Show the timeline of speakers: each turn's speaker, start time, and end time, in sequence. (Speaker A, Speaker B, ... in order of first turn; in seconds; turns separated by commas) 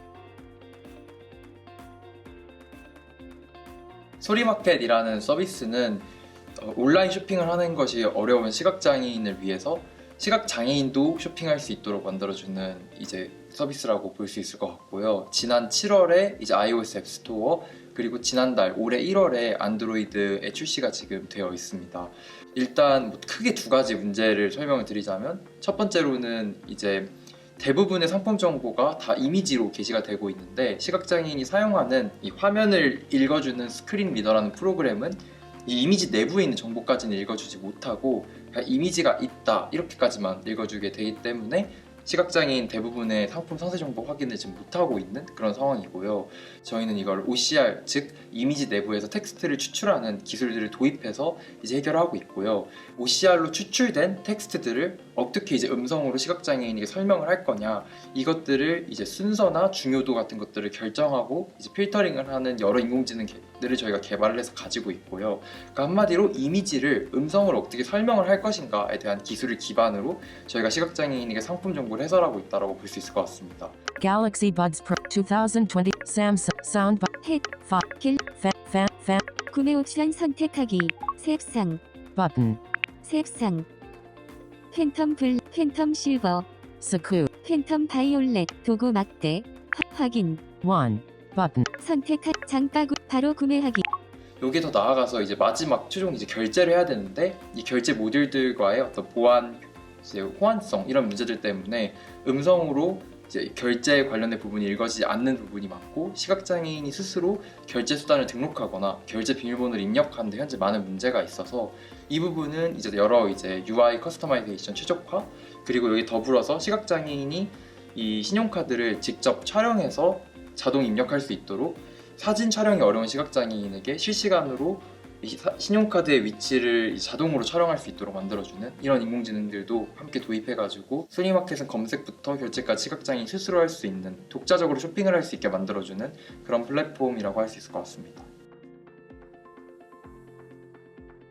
Speaker A: 4.2-73.8, Speaker B: 74.0-77.1, Speaker C: 77.2-78.2, Speaker B: 77.6-79.2, Speaker C: 79.5-81.8, Speaker B: 82.2-82.6, Speaker C: 83.0-83.7, Speaker C: 84.7-86.5, Speaker B: 86.8-87.3, Speaker C: 87.4-90.5, Speaker B: 90.6-91.7, Speaker C: 91.8-93.8, Speaker A: 94.4-138.3